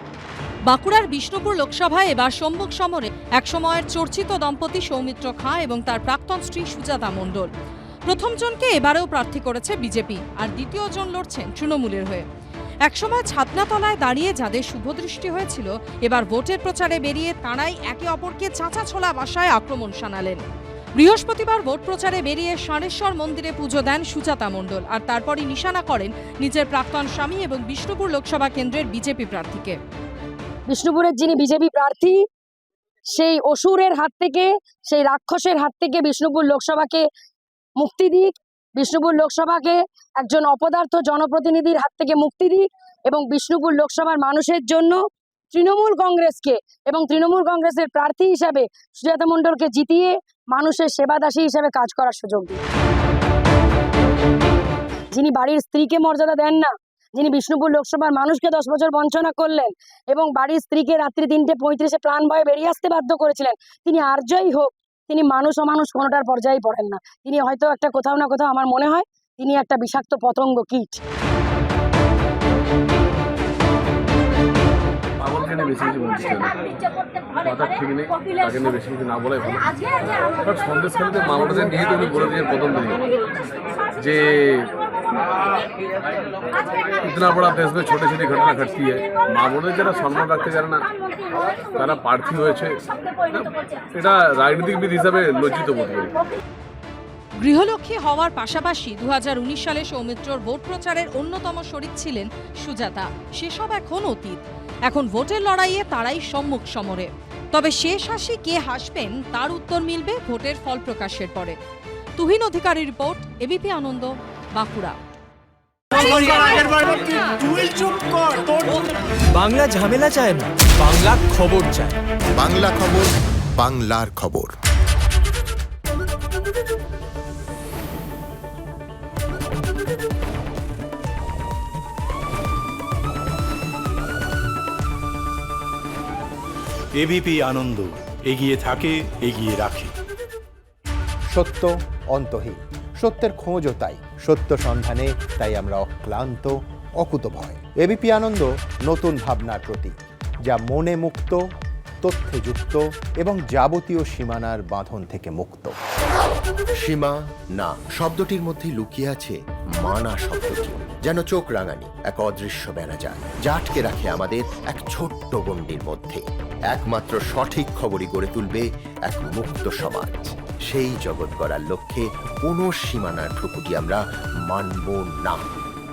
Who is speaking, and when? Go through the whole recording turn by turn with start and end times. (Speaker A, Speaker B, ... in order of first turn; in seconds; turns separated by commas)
Speaker A: 0.7-7.5, Speaker A: 8.1-12.2, Speaker A: 12.8-20.4, Speaker A: 21.0-29.8, Speaker B: 30.7-32.2, Speaker B: 33.1-37.0, Speaker B: 37.8-45.0, Speaker B: 45.5-52.6, Speaker B: 55.1-71.0, Speaker C: 75.2-83.1, Speaker C: 84.0-84.7, Speaker C: 86.8-96.3, Speaker A: 97.4-111.5, Speaker A: 112.2-115.0, Speaker A: 115.9-117.5, Speaker D: 116.1-116.5, Speaker D: 117.4-118.7, Speaker E: 119.3-122.0, Speaker F: 122.4-124.5, Speaker D: 136.9-139.9, Speaker F: 141.3-151.4, Speaker F: 152.0-155.7, Speaker G: 156.8-175.5